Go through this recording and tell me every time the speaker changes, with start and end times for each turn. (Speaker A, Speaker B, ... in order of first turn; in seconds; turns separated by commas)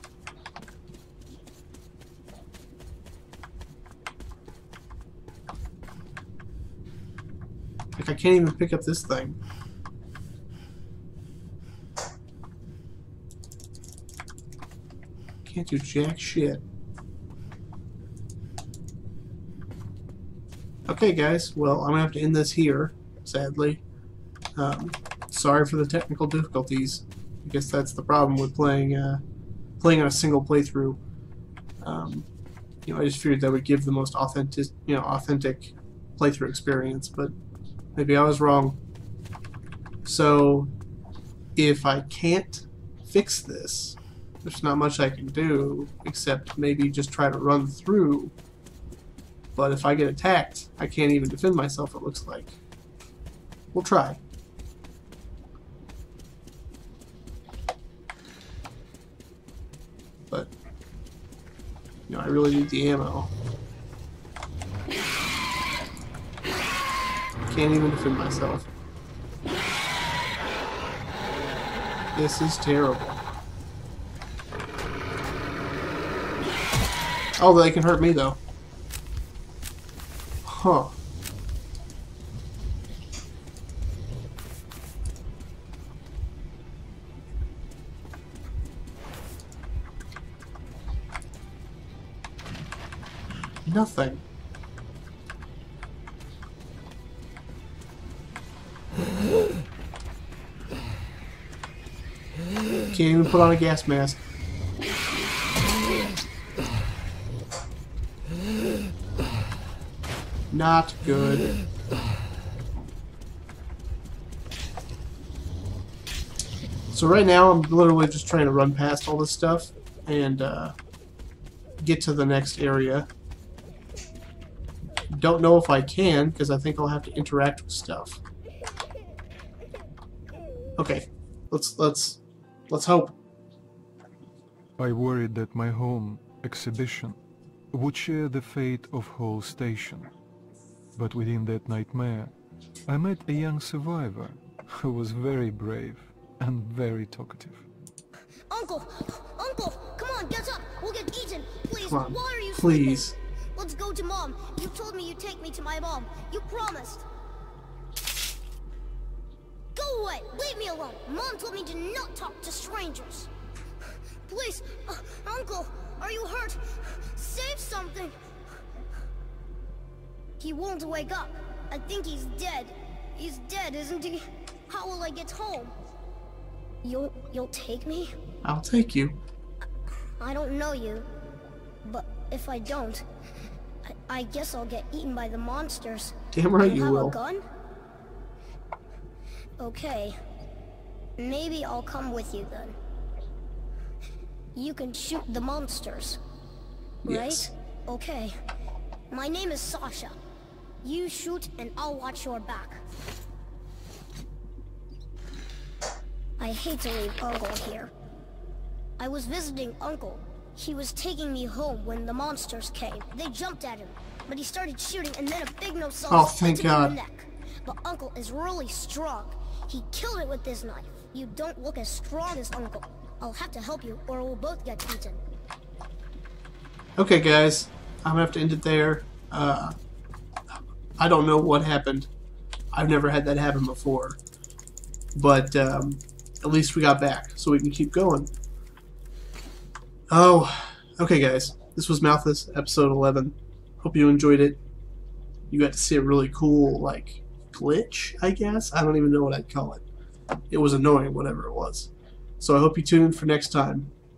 Speaker A: 8.0-9.4, Speaker A: 15.4-16.6, Speaker A: 20.9-23.8, Speaker A: 24.6-29.2, Speaker A: 29.8-31.0, Speaker A: 31.8-32.3, Speaker A: 32.9-37.3, Speaker A: 38.0-38.8, Speaker A: 40.0-40.7, Speaker A: 41.6-48.3, Speaker A: 49.6-52.6, Speaker A: 53.7-54.2, Speaker A: 62.1-63.3, Speaker A: 67.5-68.7, Speaker A: 72.2-73.2, Speaker A: 77.4-78.4, Speaker A: 80.5-80.9, Speaker A: 93.7-94.2, Speaker A: 102.9-104.2, Speaker A: 110.5-111.5, Speaker A: 116.9-120.8, Speaker A: 121.8-123.1, Speaker A: 125.1-128.2, Speaker A: 130.8-133.2, Speaker B: 134.8-137.2, Speaker B: 137.7-140.1, Speaker B: 140.9-142.4, Speaker B: 142.9-147.7, Speaker C: 148.5-157.1, Speaker A: 151.8-153.2, Speaker C: 159.8-163.3, Speaker C: 164.3-168.2, Speaker C: 170.4-175.7, Speaker C: 176.8-178.1, Speaker A: 178.4-179.2, Speaker C: 180.2-181.1, Speaker C: 181.8-183.0, Speaker C: 183.9-187.4, Speaker A: 186.3-187.2, Speaker C: 189.6-190.2, Speaker C: 191.2-192.8, Speaker C: 194.6-196.2, Speaker C: 197.1-198.3, Speaker A: 197.1-197.5, Speaker C: 199.1-200.2, Speaker C: 200.8-202.8, Speaker C: 206.4-207.9, Speaker C: 209.0-225.2, Speaker A: 216.1-217.0, Speaker A: 227.0-229.8, Speaker A: 231.0-232.1, Speaker A: 232.7-234.2, Speaker A: 235.2-238.3, Speaker A: 240.1-244.6, Speaker A: 245.5-249.8, Speaker A: 250.5-253.9